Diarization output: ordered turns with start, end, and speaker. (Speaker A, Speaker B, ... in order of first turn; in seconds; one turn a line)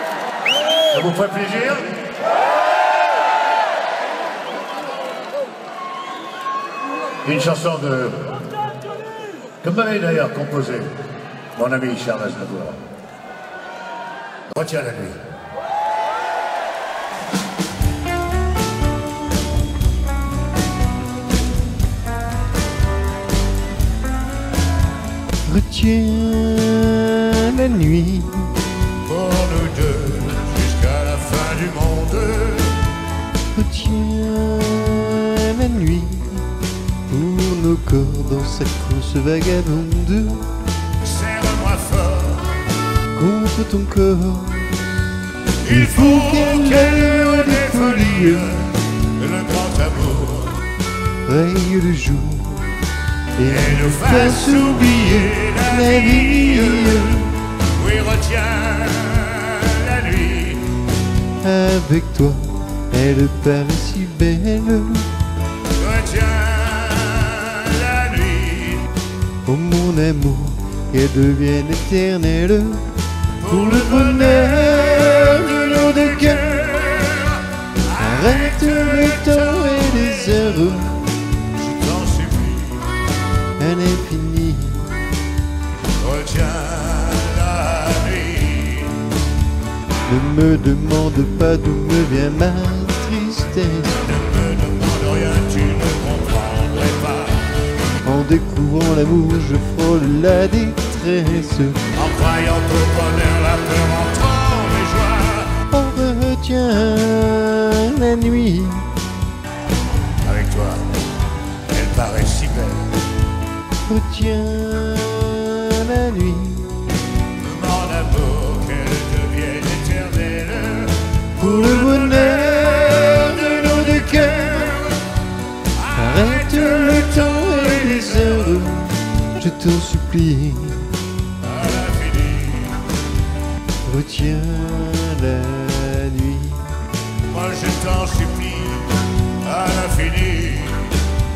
Speaker A: 0.9-2.1
Speaker A: 7.2-8.5
Speaker A: 9.6-11.0
Speaker A: 11.5-12.8
Speaker A: 14.5-15.2
Speaker B: 25.4-28.6
Speaker A: 28.9-32.9
Speaker B: 33.5-36.5
Speaker B: 37.1-40.5
Speaker A: 41.0-42.6
Speaker B: 43.1-48.6
Speaker A: 45.6-50.7
Speaker B: 51.2-52.8
Speaker B: 53.4-57.4
Speaker A: 53.5-60.8
Speaker B: 61.4-65.1
Speaker A: 65.7-68.9
Speaker B: 69.4-76.8
Speaker A: 73.4-79.7
Speaker B: 77.9-81.0
Speaker A: 81.4-83.0
Speaker B: 83.6-85.0
Speaker A: 85.9-89.0
Speaker B: 90.0-94.0
Speaker A: 94.0-97.5
Speaker B: 98.0-101.9
Speaker A: 101.9-105.6
Speaker B: 105.7-108.9
Speaker A: 110.2-111.0
Speaker A: 111.7-113.0
Speaker B: 113.9-117.0
Speaker A: 117.3-125.1
Speaker B: 121.4-124.8
Speaker A: 125.8-128.5
Speaker B: 125.8-130.9
Speaker A: 131.4-132.9
Speaker B: 133.8-136.8
Speaker A: 137.2-141.1